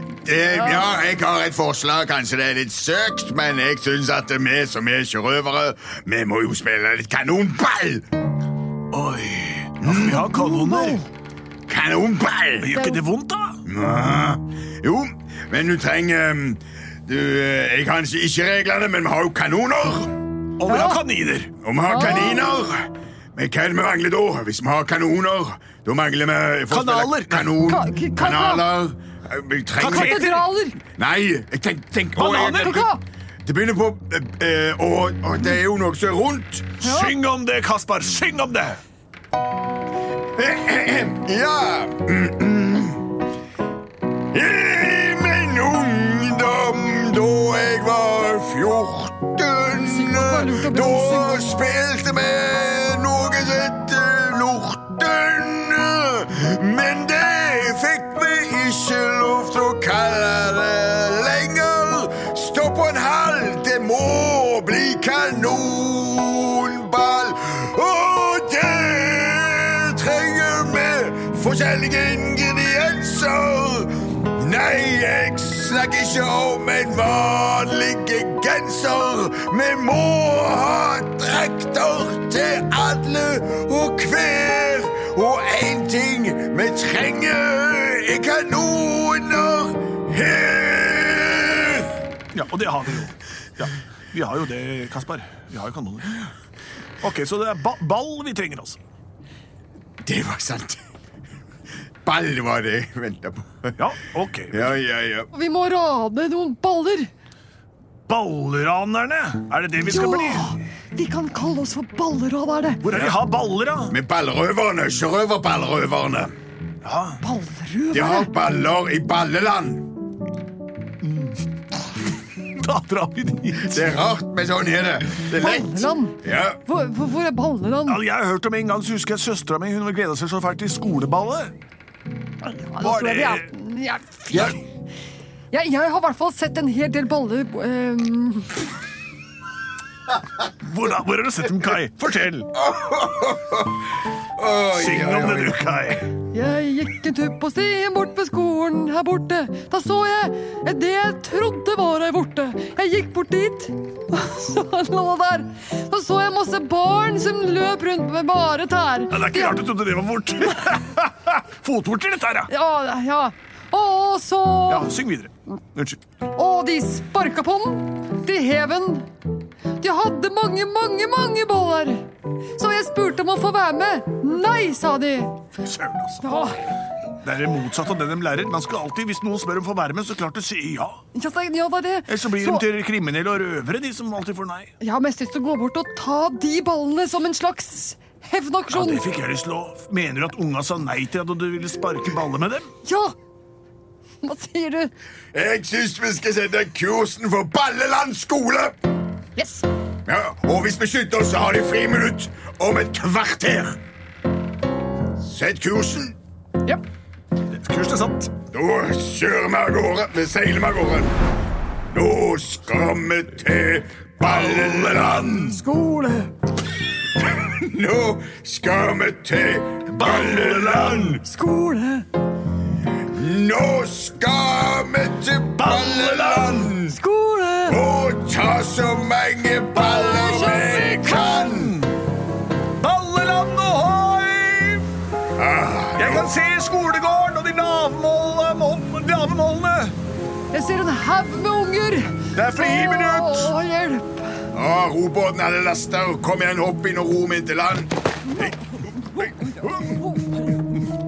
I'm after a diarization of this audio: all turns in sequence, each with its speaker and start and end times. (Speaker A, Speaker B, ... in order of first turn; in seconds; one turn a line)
Speaker A: 0.2-8.1
Speaker B: 0.5-0.9
Speaker C: 8.9-11.1
Speaker A: 9.8-10.3
Speaker B: 10.3-11.0
Speaker A: 11.7-12.8
Speaker C: 12.6-13.6
Speaker B: 12.7-13.0
Speaker A: 13.7-20.1
Speaker C: 20.6-21.5
Speaker B: 20.7-21.0
Speaker A: 21.6-30.3
Speaker B: 21.9-22.6
Speaker C: 26.7-27.6
Speaker B: 27.7-28.7
Speaker C: 29.8-30.5
Speaker B: 29.9-30.8
Speaker A: 30.9-32.9
Speaker C: 32.2-32.9
Speaker B: 32.5-33.0
Speaker A: 33.4-36.8
Speaker C: 36.8-38.8
Speaker B: 36.8-37.2
Speaker A: 40.4-43.0
Speaker A: 44.3-91.9
Speaker B: 49.8-51.6
Speaker C: 92.3-96.3
Speaker C: 97.0-98.8
Speaker A: 100.0-100.8
Speaker A: 102.0-103.8
Speaker C: 103.8-104.8
Speaker A: 104.5-105.3
Speaker B: 105.3-107.1
Speaker C: 108.1-110.6
Speaker B: 109.9-112.8
Speaker C: 112.8-114.0
Speaker A: 113.9-116.3
Speaker C: 116.8-117.2
Speaker B: 117.2-118.3
Speaker A: 117.9-119.9
Speaker C: 121.0-121.4
Speaker C: 122.6-123.9
Speaker A: 123.6-126.6
Speaker B: 125.4-128.0
Speaker C: 127.9-131.5
Speaker B: 132.5-134.6
Speaker C: 132.8-133.5
Speaker A: 134.3-134.6
Speaker B: 135.5-138.6
Speaker C: 140.4-142.5
Speaker A: 142.6-145.6
Speaker C: 144.7-146.1
Speaker B: 146.3-159.7
Speaker C: 159.1-162.5
Speaker B: 162.5-164.9
Speaker C: 164.7-166.0
Speaker B: 166.3-169.1
Speaker B: 169.8-172.0
Speaker B: 172.6-175.4
Speaker C: 175.6-176.3
Speaker B: 176.2-176.6
Speaker C: 177.2-181.0
Speaker B: 181.2-182.7
Speaker C: 182.1-184.7
Speaker B: 184.8-189.1
Speaker C: 188.7-192.7
Speaker B: 192.8-193.1
Speaker B: 194.2-194.9
Speaker A: 195.3-198.8
Speaker B: 199.4-199.7
Speaker A: 200.1-203.8
Speaker A: 205.2-206.2
Speaker C: 207.5-208.3
Speaker A: 208.5-211.1
Speaker A: 211.9-215.6
Speaker C: 214.2-215.6
Speaker B: 215.5-216.3
Speaker A: 217.2-221.2
Speaker C: 219.9-221.2
Speaker B: 221.2-222.1
Speaker A: 223.0-227.0
Speaker C: 225.6-226.8
Speaker B: 226.9-227.8
Speaker A: 227.7-231.8
Speaker B: 229.8-231.2
Speaker C: 230.4-232.0
Speaker C: 232.8-234.9
Speaker A: 235.4-236.3
Speaker C: 236.0-240.0
Speaker B: 240.5-244.4
Speaker C: 242.3-243.6
Speaker A: 244.5-250.1